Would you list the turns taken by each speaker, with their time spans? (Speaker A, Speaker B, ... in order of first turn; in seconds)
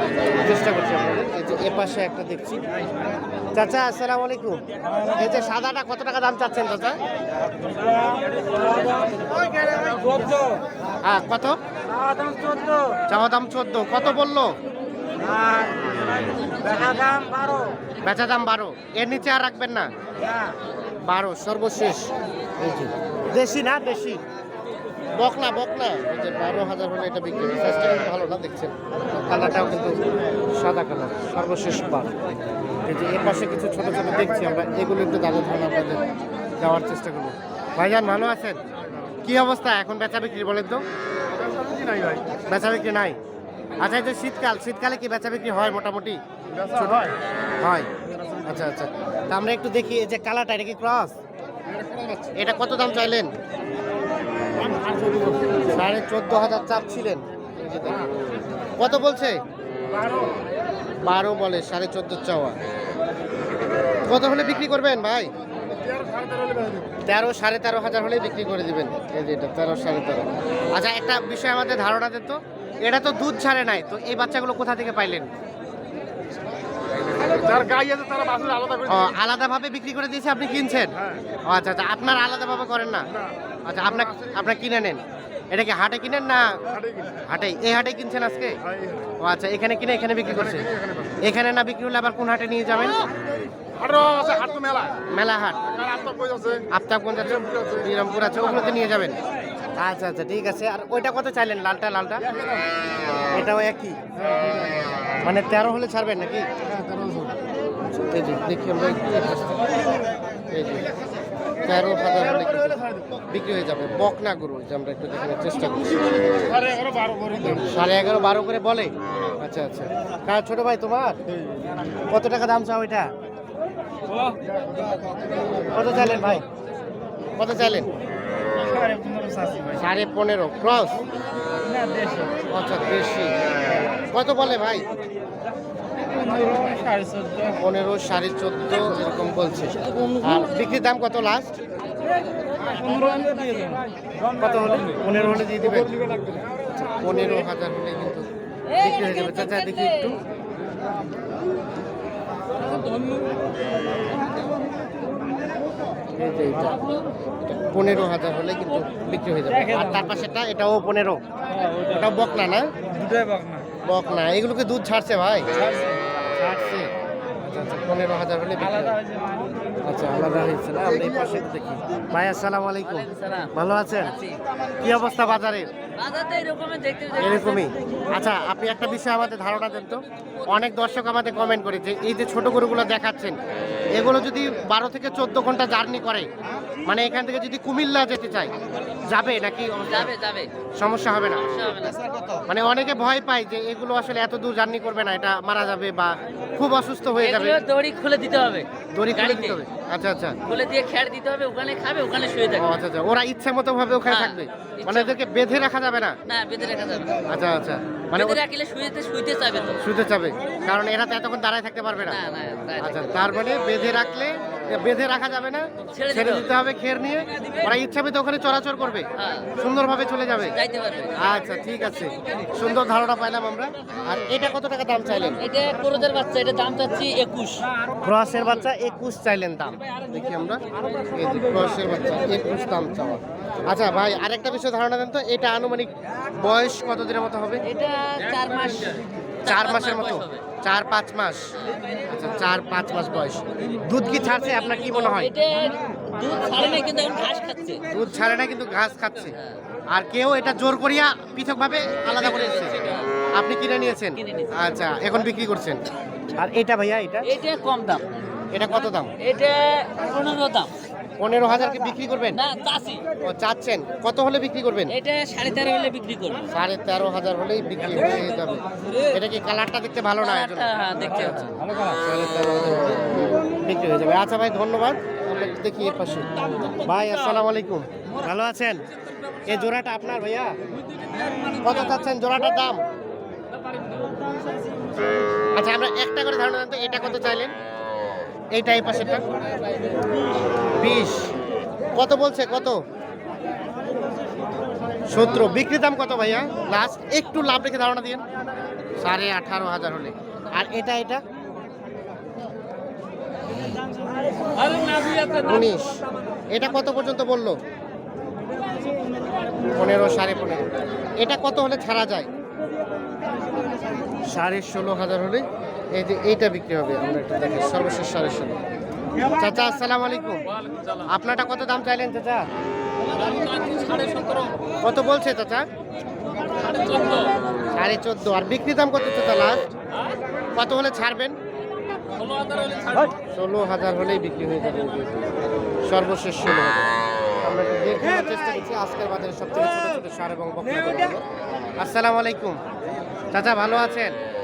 Speaker A: 0.3-2.6, 3.5-7.0, 11.0-11.6, 13.1-14.6, 18.0-19.9, 21.0-24.2, 25.2-30.0, 30.5-32.1, 32.9-36.0, 36.6-38.6, 39.2-40.8, 42.5-43.2, 43.8-47.9, 48.5-51.1, 52.3-53.3, 55.7-58.1, 58.8-59.4, 61.0-62.6, 64.0-65.3, 67.1-75.3, 78.8-83.1, 83.7-88.6, 89.2-93.0, 95.0-95.6, 96.7-99.2, 99.8-102.4, 103.3-104.1, 105.2-106.5, 108.0-109.9, 110.5-110.9, 111.6-116.5, 117.4-121.2, 122.1-123.1, 125.7-126.5, 127.4-127.9, 129.7-131.0, 132.4-133.3, 134.0-134.9, 137.5-141.5, 144.3-146.0, 146.8-150.2, 156.2-156.8, 157.4-162.7, 163.8-165.5, 166.3-166.9, 167.4-169.0, 169.8-174.2, 174.8-175.7, 177.2-183.4, 183.9-186.3, 186.9-188.5, 189.1-190.1, 190.8-191.5, 192.5-197.6, 198.9-200.4, 202.5-206.2, 207.3-208.4, 209.8-212.2, 212.8-220.6, 221.2-225.4, 228.0-237.6, 239.4-241.5, 242.1-245.3, 247.9-249.4, 249.9-252.8, 253.3-255.8, 256.4-257.4, 258.5-259.1, 261.2-262.4, 263.2-264.9, 266.5-278.8, 279.5-280.6, 281.6-282.8, 285.5-287.5, 288.5-289.2, 290.8-291.3, 291.9-292.8, 295.1-298.2, 299.0-301.2, 305.3-306.0, 306.5-307.6, 309.8-310.7, 311.2-312.3, 314.3-318.6, 319.3-320.4, 321.0-322.5, 324.8-325.6, 327.7-329.6, 330.6-331.4, 333.2-335.2, 335.9-336.8, 337.4-341.2, 341.8-342.6, 343.3-344.1
Speaker B: 7.9-10.7, 11.9-13.0, 15.2-17.8, 163.1-163.6
Speaker C: 41.6-42.2, 65.9-66.8, 77.3-78.8, 93.8-95.0, 96.0-96.6, 106.9-107.3, 116.9-117.4, 128.8-129.7, 136.4-137.4, 146.1-146.4
Speaker D: 142.8-143.7, 148.7-150.1, 172.8-173.5, 174.1-174.4, 176.0-177.7, 189.9-190.5, 191.5-192.1, 197.2-199.6, 200.4-202.7, 204.1-205.2, 206.3-207.3, 208.1-209.8, 212.1-213.2, 215.9-216.5, 219.2-219.5, 220.5-221.2, 225.4-227.7, 237.7-240.4, 244.4-247.8, 252.1-253.1, 254.2-254.6, 257.2-258.1, 259.2-260.7, 262.3-263.1, 264.9-266.5, 270.2-271.6, 304.7-305.3, 323.3-324.5, 326.6-327.4, 332.2-333.0